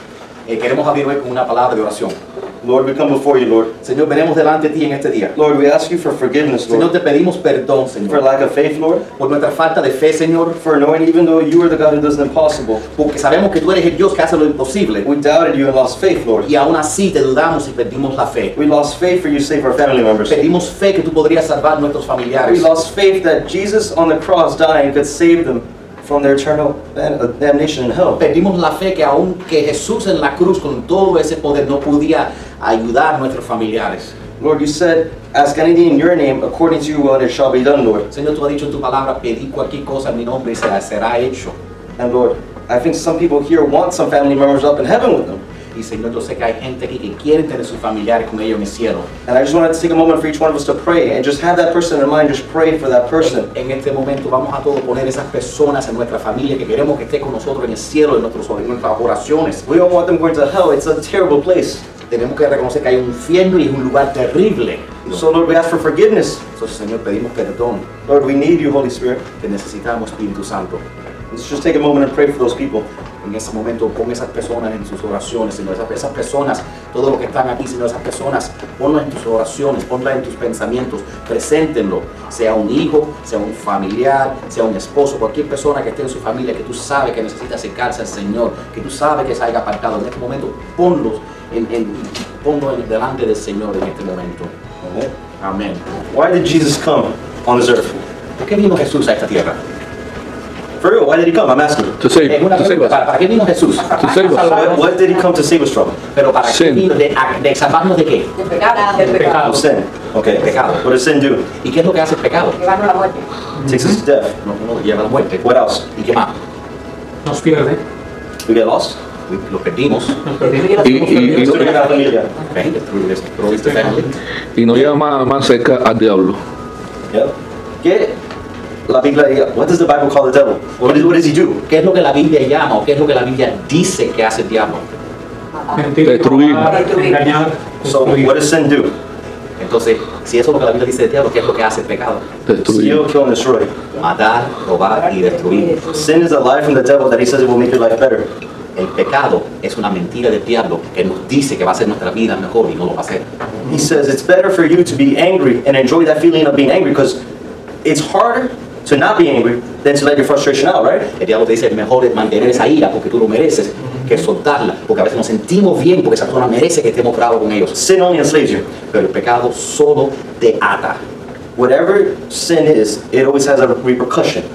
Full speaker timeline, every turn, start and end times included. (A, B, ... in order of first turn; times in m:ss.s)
0:00.5-0:02.2 A
0:02.6-0:03.7 B
0:03.8-0:05.3 A
0:05.4-0:06.9 B
0:06.7-0:08.3 A
0:08.1-0:09.0 B
0:09.2-0:10.6 A
0:10.6-0:12.8 B
0:13.0-0:15.1 A
0:15.0-0:16.5 B
0:16.4-0:18.5 A
0:18.5-0:20.4 B
0:20.3-0:22.7 A
0:22.4-0:28.2 B
0:28.2-0:34.1 A
0:34.4-0:38.1 B
0:38.1-0:41.6 A
0:42.0-0:45.4 B
0:45.7-0:49.1 A
0:49.2-0:53.5 B
0:53.2-0:59.6 A
0:59.6-1:01.8 B
1:02.1-1:05.2 A
1:05.1-1:06.4 B
1:06.6-1:07.9 A
1:08.0-1:09.2 B
1:09.4-1:10.8 A
1:11.3-1:12.9 B
1:13.2-1:34.5 A
1:34.8-1:35.1 B
1:35.4-1:36.0 A
1:36.1-1:38.0 B
1:38.4-1:39.6 A
1:40.8-1:42.0 B
1:42.0-1:43.0 C
1:42.2-1:44.2 A
1:43.9-1:44.7 C
1:44.2-1:44.8 D
1:44.4-1:46.0 B
1:46.1-1:48.4 A
1:46.4-1:46.9 C
1:48.4-1:49.4 E
1:48.9-1:49.6 D
1:49.3-1:51.4 B
1:50.3-1:50.8 A
1:51.6-1:52.6 A
1:52.7-1:53.2 E
1:53.6-1:54.4 B
1:54.4-1:56.3 A
1:55.4-1:55.8 B
1:57.2-1:57.8 D
1:58.4-1:59.0 B
1:59.3-2:04.1 A
2:00.3-2:00.8 D
2:00.4-2:01.8 E
2:00.7-2:01.8 C
2:01.2-2:02.3 B
2:04.6-2:06.4 C
2:07.1-2:08.2 B
2:08.9-2:11.6 B
2:11.7-2:14.8 A
2:15.7-2:18.3 D
2:16.0-2:16.8 C
2:16.6-2:17.4 E
2:17.8-2:18.9 B
2:19.6-2:22.2 A
2:22.5-2:23.0 C
2:22.7-2:23.7 B
2:24.0-2:25.8 A
2:25.9-2:28.3 B
2:28.8-2:33.2 A
2:33.6-2:37.2 B
2:37.8-2:41.1 B
2:41.1-2:47.8 A
2:47.7-2:48.7 B
2:48.9-2:51.0 A
2:51.6-2:54.4 B